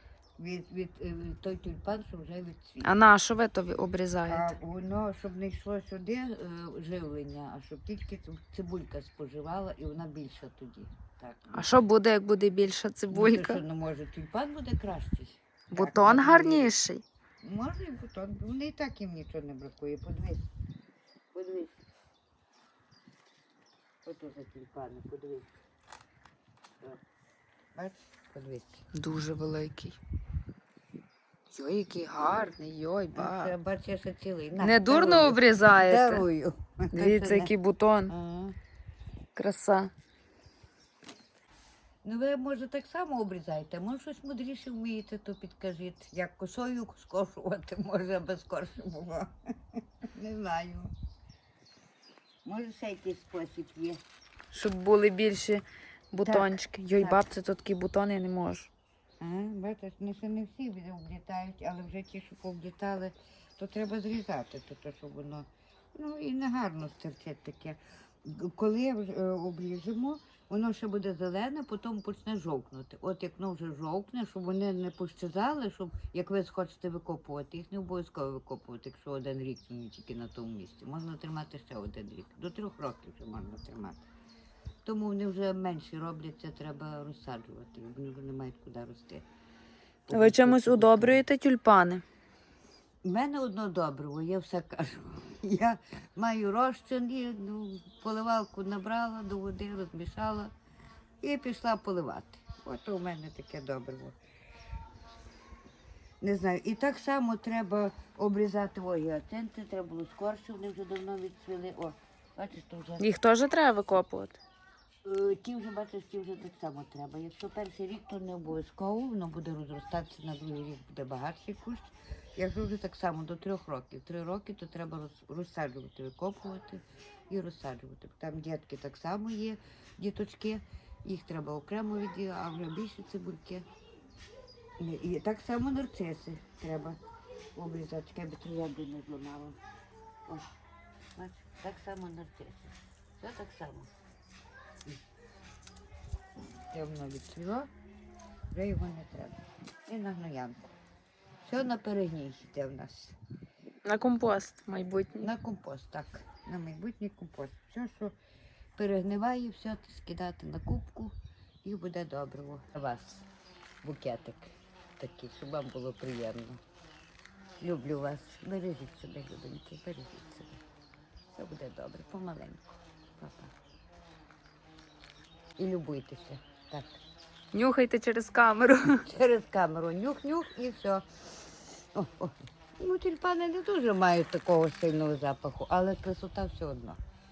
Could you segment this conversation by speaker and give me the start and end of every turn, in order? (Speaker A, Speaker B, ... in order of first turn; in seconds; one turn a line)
Speaker A: 0.4-2.9
Speaker B: 2.8-4.5
Speaker A: 4.3-11.7
Speaker B: 11.5-13.6
Speaker A: 13.1-16.8
Speaker B: 15.7-17.0
Speaker A: 17.4-20.5
Speaker A: 21.3-21.8
Speaker A: 24.0-25.5
Speaker A: 27.8-28.9
Speaker B: 28.9-30.0
Speaker B: 31.5-33.5
Speaker A: 33.1-37.5
Speaker B: 34.6-36.2
Speaker B: 36.9-38.1
Speaker A: 38.1-38.5
Speaker B: 39.4-39.9
Speaker A: 42.0-50.9
Speaker A: 52.5-54.0
Speaker B: 54.5-58.7
Speaker A: 56.2-57.2
Speaker A: 59.2-84.0
Speaker A: 84.8-89.2
Speaker A: 90.1-91.2
Speaker B: 90.1-92.0
Speaker A: 93.0-100.5
Speaker A: 101.2-104.2
Speaker A: 106.2-113.1
Speaker B: 113.0-114.4
Speaker A: 115.0-133.7
Speaker A: 134.8-137.0
Speaker A: 137.6-139.6
Speaker A: 141.2-143.9
Speaker A: 146.7-147.7
Speaker A: 148.5-150.7
Speaker A: 151.4-153.2
Speaker B: 153.8-155.3
Speaker A: 155.2-158.2
Speaker A: 158.8-163.3
Speaker A: 163.8-166.6
Speaker A: 167.6-170.6
Speaker A: 171.3-173.5
Speaker A: 175.6-177.0
Speaker B: 177.5-179.1
Speaker A: 179.1-181.1
Speaker A: 181.9-187.0